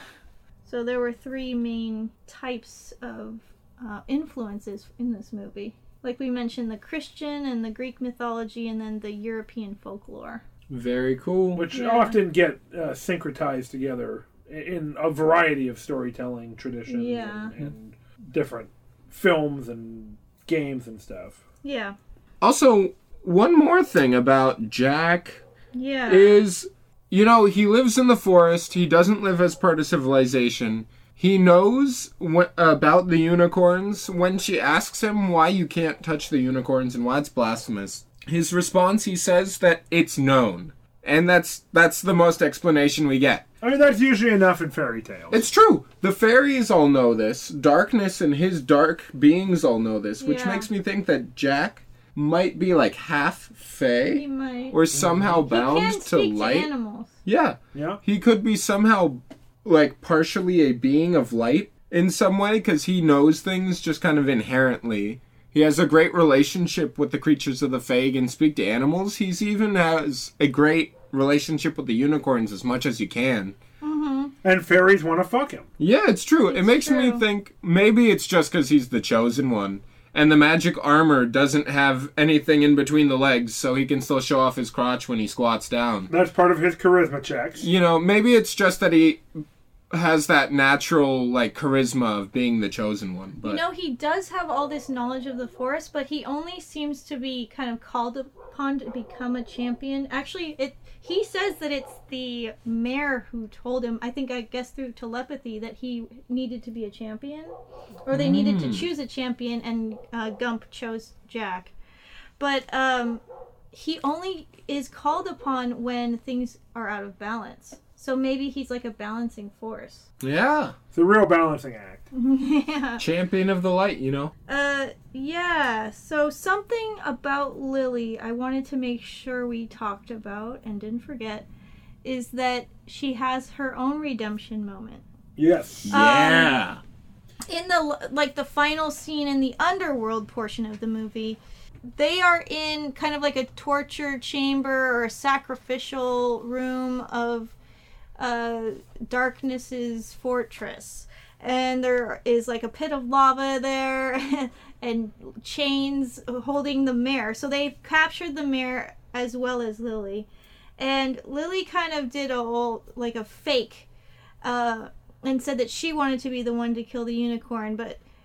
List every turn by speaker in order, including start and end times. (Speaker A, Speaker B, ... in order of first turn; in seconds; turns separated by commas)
Speaker A: 0.6-10.4, Speaker B: 10.7-11.6, Speaker C: 11.5-21.4, Speaker A: 11.7-12.2, Speaker A: 16.9-17.5, Speaker A: 21.6-21.9, Speaker B: 22.4-25.4, Speaker A: 25.7-26.4, Speaker B: 26.1-43.4, Speaker C: 43.6-45.4, Speaker B: 45.3-56.7, Speaker A: 50.2-50.7, Speaker A: 54.1-54.8, Speaker C: 54.9-55.4, Speaker A: 55.4-57.1, Speaker B: 57.2-73.5, Speaker C: 57.7-58.0, Speaker A: 73.8-74.3, Speaker C: 74.4-75.7, Speaker B: 75.8-86.1, Speaker A: 76.5-77.2, Speaker C: 86.1-87.7, Speaker B: 87.6-89.2, Speaker B: 89.9-93.6, Speaker A: 93.4-107.5, Speaker A: 108.0-111.7, Speaker B: 108.1-108.9, Speaker A: 112.4-120.1, Speaker B: 120.2-120.7, Speaker C: 120.9-122.1, Speaker A: 122.1-123.0, Speaker B: 123.0-124.3, Speaker A: 124.5-131.5, Speaker A: 132.0-135.0, Speaker C: 135.4-135.9, Speaker B: 135.9-136.8, Speaker A: 135.9-136.6, Speaker A: 137.5-141.4, Speaker A: 141.9-147.6, Speaker A: 148.2-163.9, Speaker A: 164.4-168.0